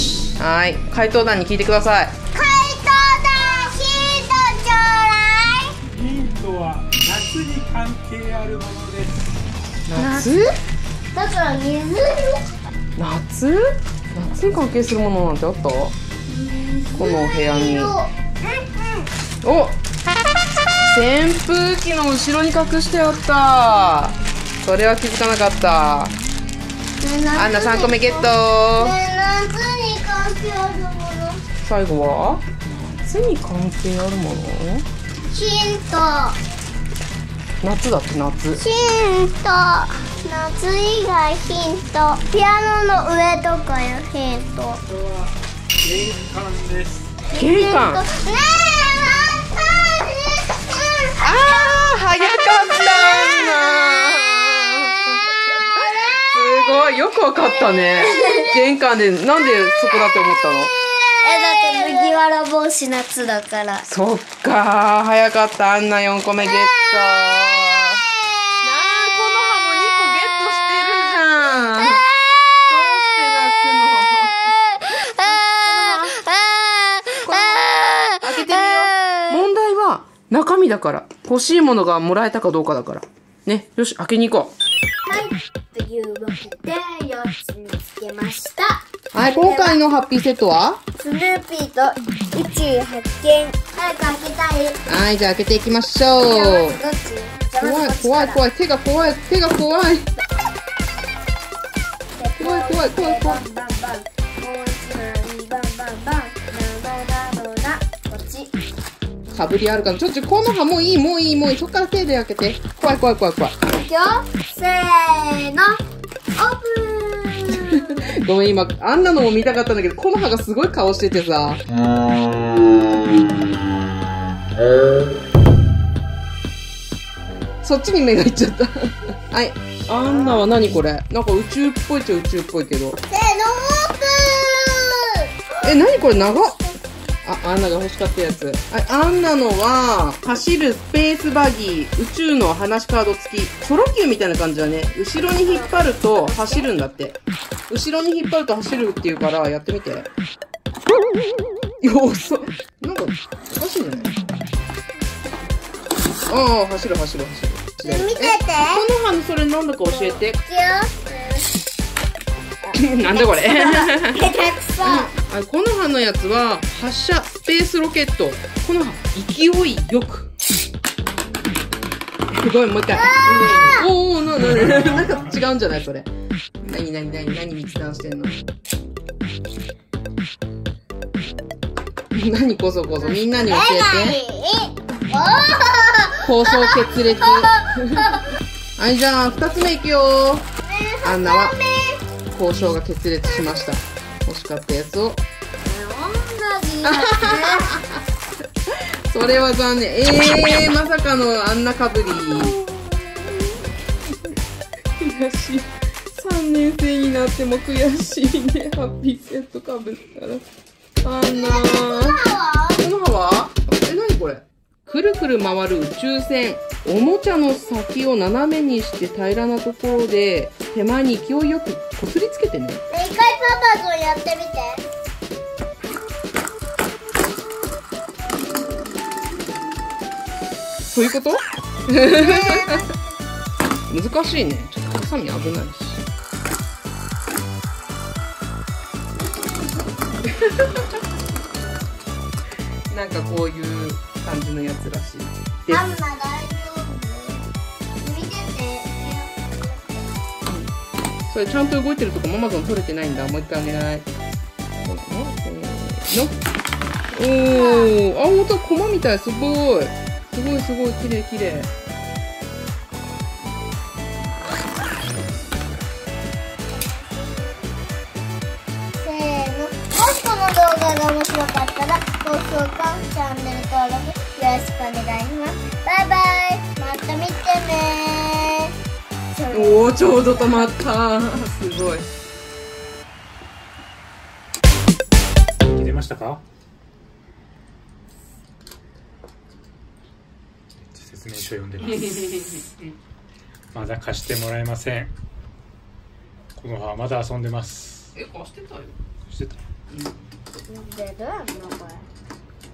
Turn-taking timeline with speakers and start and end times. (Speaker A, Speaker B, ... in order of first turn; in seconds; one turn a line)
Speaker A: 0.4-2.2
Speaker B: 2.3-5.8
Speaker C: 5.9-9.2
Speaker A: 9.9-10.5
Speaker B: 9.9-10.4
Speaker B: 11.1-12.4
Speaker A: 13.0-16.0
Speaker B: 16.3-19.1
Speaker A: 16.9-17.9
Speaker A: 19.4-19.8
Speaker A: 20.7-26.2
Speaker B: 27.0-31.4
Speaker A: 27.4-28.9
Speaker A: 31.6-34.9
Speaker B: 35.3-36.4
Speaker A: 37.6-38.6
Speaker B: 38.6-44.8
Speaker C: 44.9-45.3
Speaker C: 45.8-47.1
Speaker B: 47.3-51.2
Speaker A: 47.3-48.0
Speaker A: 51.2-60.7
Speaker B: 58.0-58.5
Speaker B: 61.1-63.9
Speaker A: 63.9-68.0
Speaker A: 68.6-74.5
Speaker B: 74.8-79.4
Speaker A: 75.2-76.2
Speaker A: 77.2-84.5
Speaker B: 85.1-89.8
Speaker A: 89.1-90.8
Speaker B: 91.0-94.8
Speaker A: 94.9-96.8
Speaker B: 96.2-98.4
Speaker A: 97.6-100.1
Speaker B: 102.2-108.5
Speaker A: 102.4-103.4
Speaker A: 109.3-113.6
Speaker B: 113.7-115.8
Speaker B: 116.4-118.0
Speaker A: 117.5-121.6
Speaker A: 127.6-133.0
Speaker B: 130.0-130.4
Speaker B: 133.1-136.4
Speaker A: 135.6-136.6
Speaker A: 137.2-147.2
Speaker B: 145.4-146.7
Speaker A: 147.7-150.1
Speaker A: 151.8-154.2
Speaker A: 156.3-160.4
Speaker B: 157.8-158.8
Speaker B: 159.9-161.5
Speaker B: 162.6-165.1
Speaker A: 162.7-170.3
Speaker A: 172.3-176.1
Speaker B: 172.9-173.9
Speaker A: 176.6-178.4
Speaker A: 182.1-184.2
Speaker B: 183.3-188.3
Speaker A: 186.2-188.1
Speaker A: 188.8-190.5
Speaker B: 190.6-192.0
Speaker A: 191.0-191.6
Speaker A: 192.3-195.2
Speaker B: 195.6-197.8
Speaker A: 196.8-198.0
Speaker A: 199.1-202.6
Speaker B: 202.4-203.5
Speaker A: 205.0-210.4
Speaker A: 211.0-212.2
Speaker B: 211.3-212.8
Speaker A: 212.8-222.8
Speaker B: 222.9-224.8
Speaker A: 230.9-232.9
Speaker B: 232.1-233.0
Speaker A: 233.9-236.0
Speaker B: 239.2-240.0
Speaker A: 240.4-240.8
Speaker A: 242.9-245.9
Speaker B: 245.7-247.5
Speaker B: 248.0-250.1
Speaker A: 250.5-250.7
Speaker A: 251.3-254.1
Speaker A: 254.8-256.4
Speaker A: 257.1-261.7
Speaker B: 257.5-258.0
Speaker B: 266.8-267.6
Speaker B: 269.0-278.7
Speaker B: 279.3-280.7
Speaker A: 279.5-282.1
Speaker C: 285.6-286.4
Speaker C: 290.9-292.6
Speaker C: 293.7-295.1
Speaker C: 296.6-298.1
Speaker A: 298.1-298.9
Speaker C: 299.3-299.6
Speaker B: 300.7-302.1